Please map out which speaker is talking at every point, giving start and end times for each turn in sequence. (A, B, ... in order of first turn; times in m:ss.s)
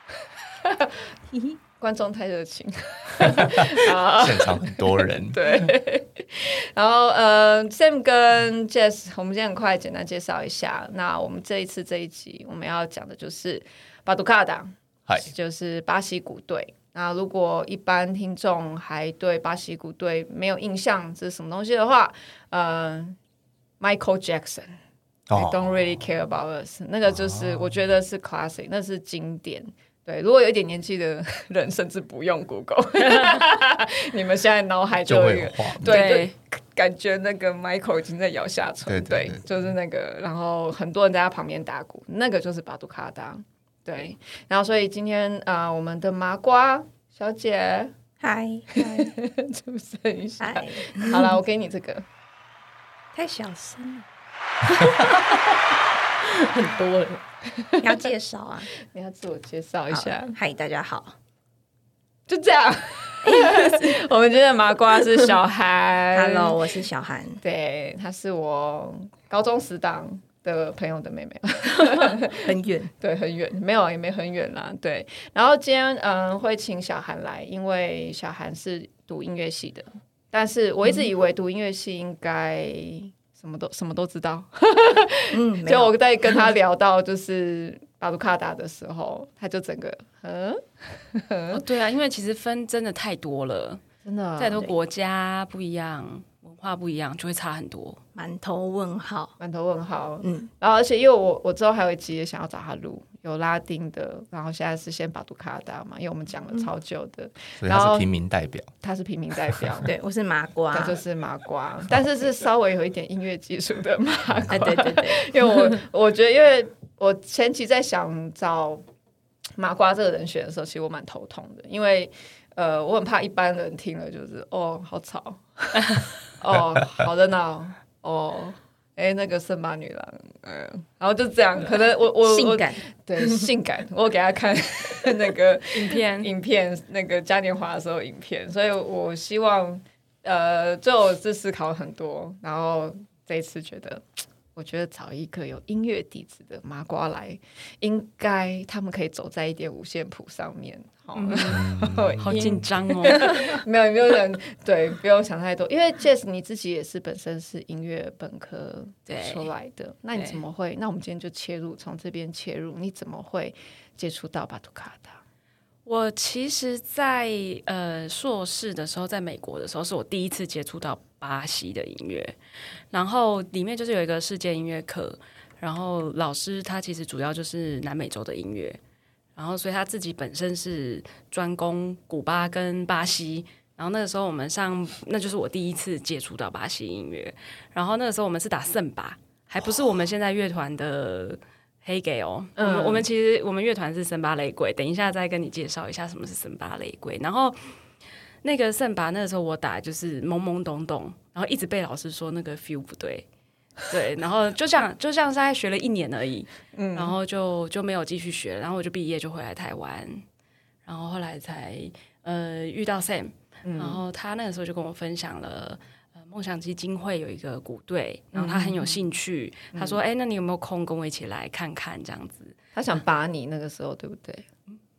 0:00.6-0:01.0 A
0:01.8-0:23.2 A
0:03.2-0:05.4 B
0:23.8-0:24.8 A
0:25.3-0:25.9 B
0:25.3-0:47.9 A
0:27.1-0:27.7 B
0:33.1-0:33.4 C
0:35.0-0:36.0 B
0:35.8-0:36.3 C
0:38.9-0:39.4 B
0:48.2-0:49.1 D
0:48.7-0:52.0 A
0:50.4-0:51.3 D
0:53.1-0:54.0 D
0:54.8-0:55.1 D
0:56.2-0:57.2 D
0:57.6-0:58.0 A
0:57.8-0:58.7 D
0:58.9-1:00.4 A
0:59.9-1:01.1 D
1:02.3-1:06.6 A
1:03.2-1:04.0 D
1:06.1-1:07.4 D
1:07.4-1:31.6 A
1:11.9-1:12.9 D
1:25.3-1:25.9 D
1:31.5-1:33.8 C
1:34.0-1:34.6 A
1:34.4-1:38.0 C
1:38.2-1:39.3 D
1:39.4-1:48.1 A
1:40.2-1:40.5 D
1:47.6-1:48.7 B
1:48.8-1:49.9 A
1:49.8-1:51.0 D
1:50.7-1:58.8 A
1:54.5-1:55.8 D
1:59.6-2:24.0 A
2:06.5-2:07.1 B
2:12.2-2:13.4 D
2:15.7-2:16.3 C
2:24.5-2:45.2 A
2:31.1-2:33.6 C
2:31.5-2:32.8 B
2:39.1-2:39.5 C
2:45.8-2:52.3 C
2:52.9-2:58.8 C
2:59.4-3:17.7 C
3:12.6-3:13.0 A
3:18.4-3:23.2 C
3:23.8-3:30.2 C
3:26.7-3:27.1 A
3:30.8-3:42.5 C
3:33.6-3:34.0 A
3:38.3-3:38.9 A
3:39.7-3:40.0 A
3:42.7-3:44.5 A